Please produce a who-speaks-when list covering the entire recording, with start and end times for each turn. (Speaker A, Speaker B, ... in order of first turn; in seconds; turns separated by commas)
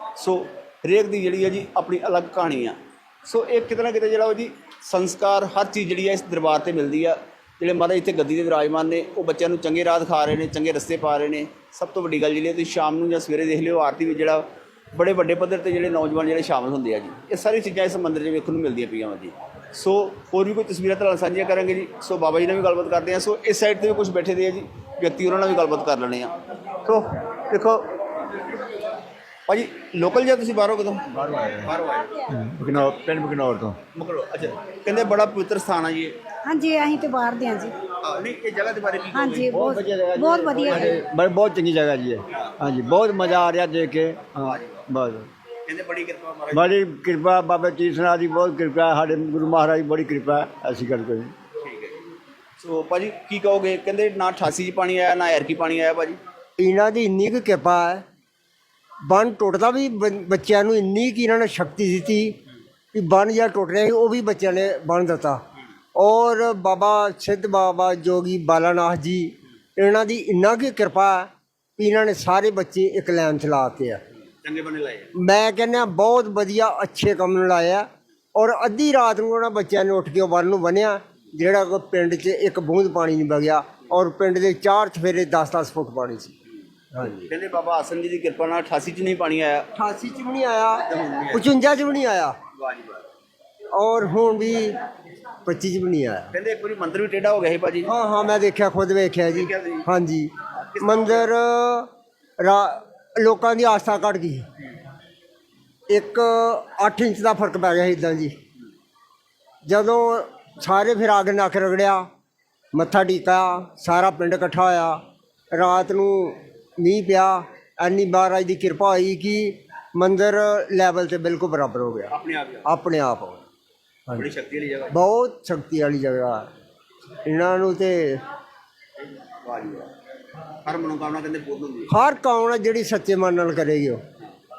Speaker A: 0.2-27.9, Speaker A: 29.5-31.1, Speaker B: 31.1-31.7, Speaker A: 31.6-32.3, Speaker B: 32.3-33.8, Speaker A: 33.9-36.1, Speaker C: 36.5-37.7, Speaker A: 38.0-39.6, Speaker C: 39.1-40.9, Speaker B: 39.5-45.3, Speaker A: 44.4-44.8, Speaker A: 45.7-46.8, Speaker B: 46.5-51.3, Speaker A: 51.6-52.0, Speaker A: 52.6-56.2, Speaker D: 56.6-58.0, Speaker D: 59.0-62.4, Speaker D: 62.9-65.4, Speaker D: 66.0-74.0, Speaker A: 74.4-75.1, Speaker D: 75.2-86.3, Speaker A: 87.0-89.7, Speaker D: 89.8-92.4, Speaker A: 90.8-91.5, Speaker A: 92.6-93.1, Speaker D: 93.7-94.8, Speaker D: 95.5-96.3, Speaker A: 96.3-97.9, Speaker D: 97.9-104.5, Speaker A: 99.3-99.9, Speaker A: 100.6-101.3, Speaker D: 105.9-108.4, Speaker D: 109.7-112.1, Speaker D: 112.7-115.0, Speaker D: 115.5-122.1, Speaker A: 122.1-122.7, Speaker D: 122.7-123.4, Speaker A: 124.1-124.9, Speaker D: 124.9-126.5, Speaker D: 127.2-128.2, Speaker A: 129.4-129.9, Speaker A: 130.7-131.9, Speaker D: 131.9-134.0